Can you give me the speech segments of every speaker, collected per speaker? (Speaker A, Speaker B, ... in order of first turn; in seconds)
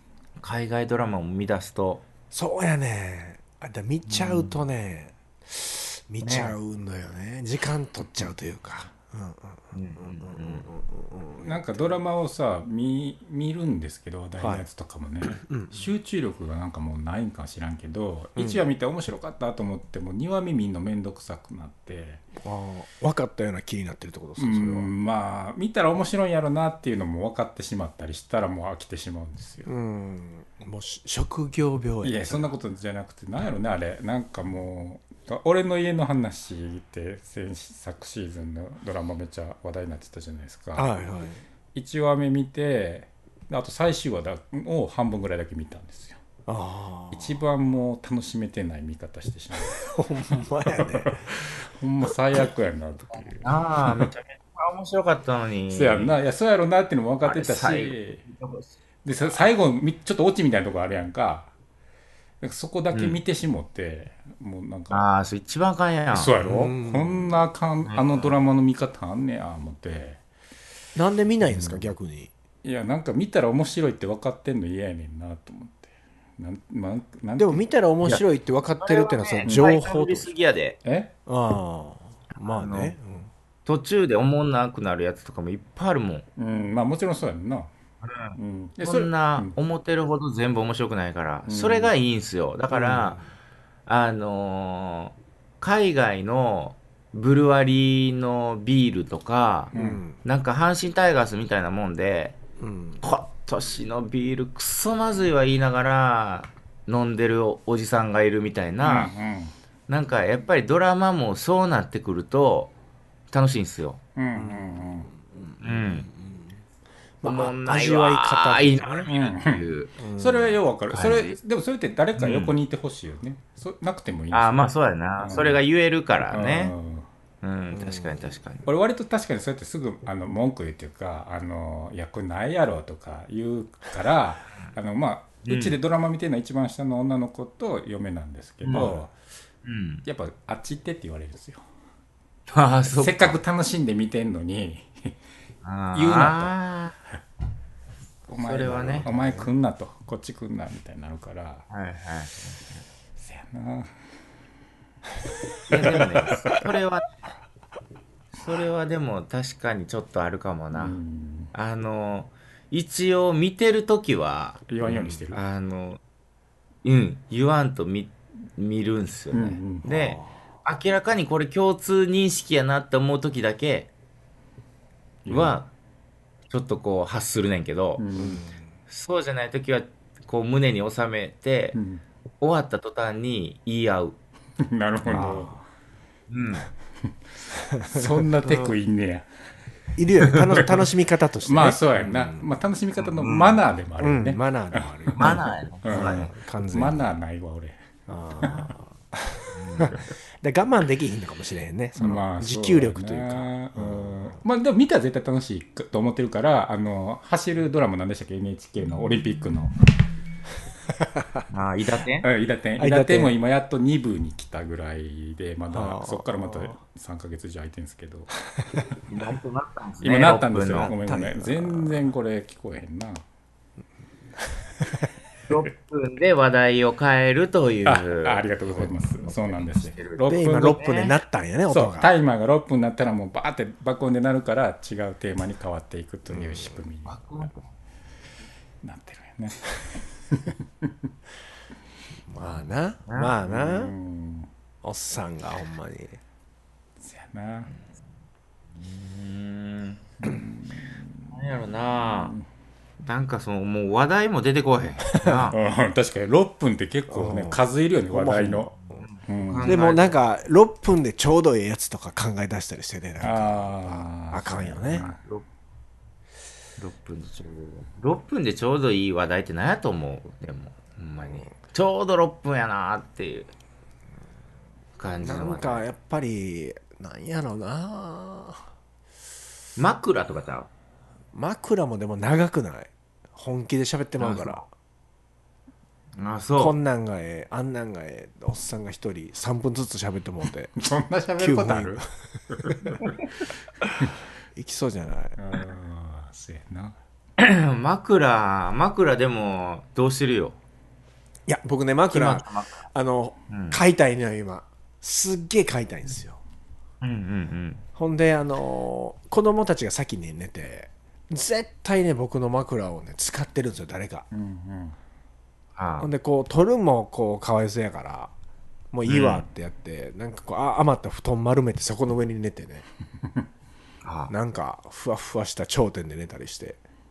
Speaker A: 0.4-2.0, 4.1-4.6, 6.2-6.5, 9.7-10.7, 53.4-56.1, 57.2-58.7, 62.9-63.2, 64.9-66.4, 67.8-68.3, 71.5-71.8, 78.8-80.8, 82.3-82.9, 83.7-86.2, 88.0-93.2, 93.9-99.7, 100.2-102.4, 103.0-109.1, 109.9-112.7, 113.3-114.0, 115.6-116.1, 117.2-119.9, 120.9-121.4, 122.2-122.5, 124.3-126.7, 127.4-128.7, 135.4-135.8, 138.6-138.9, 139.6-140.0, 142.5-143.4, 145.6-146.9, 148.3-149.1, 151.7-152.8, 155.7-157.0, 158.3-161.0, 161.5-164.7, 165.3-166.0, 166.8-173.9, 175.3-175.7, 176.5-178.0, 178.9-181.8, 182.4-184.2, 186.3-186.7, 193.0-193.6, 195.2-196.3, 199.5-199.9, 211.5-212.3, 219.1-220.9, 225.5-231.1, 237.1-237.7, 243.1-243.3, 248.8-250.2, 251.3-252.3, 253.0-255.6, 258.9-260.2, 264.9-265.4, 266.8-273.5, 275.0-275.8, 279.8-280.7, 284.2-284.6, 286.1-286.8, 297.4-300.6, 302.1-302.9, 303.5-303.8, 307.0-307.8, 315.8-316.1, 319.1-319.4, 324.0-324.3
Speaker B: 2.3-11.9, 14.4-14.6, 15.3-15.8, 18.4-18.6, 22.4-24.9, 29.6-32.5, 40.8-41.4, 46.5-47.4, 49.7-51.2, 66.4-67.4, 71.0-72.3, 77.4-80.3, 81.2-83.3, 92.7-93.3, 99.7-100.2, 102.6-103.0, 114.3-116.6, 117.2-119.1, 120.0-120.6, 127.7-128.2, 138.7-139.1, 148.7-149.5, 169.8-170.3, 178.2-178.8, 185.1-185.6, 187.6-188.7, 189.9-192.4, 194.0-197.1, 198.1-204.4, 210.9-211.4, 212.8-213.3, 215.7-216.7, 220.8-222.0, 230.3-232.1, 236.3-236.8, 242.3-243.9, 244.8-246.2, 257.1-259.0, 259.6-265.0, 275.2-278.6, 281.3-284.7, 286.6-290.7, 291.4-292.0, 294.5-295.4, 301.5-306.4, 307.9-314.3, 316.0-318.3, 318.9-322.8, 324.3-326.8
Speaker C: 11.4-22.2, 24.4-29.7, 32.0-40.9, 41.7-46.2, 47.1-49.9, 50.6-54.1, 55.7-58.2, 59.0-61.5, 62.4-65.1, 66.1-70.2, 72.6-77.6, 80.8-81.1, 86.4-87.7, 88.3-89.5, 91.5-91.9, 99.7-100.0, 108.8-109.5, 114.2-115.1, 119.1-125.6, 126.3-127.0, 128.7-139.1, 140.0-141.6, 142.9-145.1, 145.9-146.5, 148.3-151.6, 153.2-153.9, 160.7-161.5, 164.7-165.4, 169.3-169.8, 175.2-175.6, 178.0-178.4, 181.7-182.0, 184.6-185.6, 187.7-189.3, 190.2-190.9, 191.4-197.8, 198.4-198.7, 202.0-209.7, 212.2-218.3, 220.0-223.2, 227.8-230.8, 231.7-237.5, 238.8-240.9, 243.4-244.5, 247.0-247.7, 250.2-251.3, 252.0-252.4, 255.2-258.7, 259.2-259.8, 263.2-265.2, 290.8-293.2, 295.4-296.9, 314.3-314.9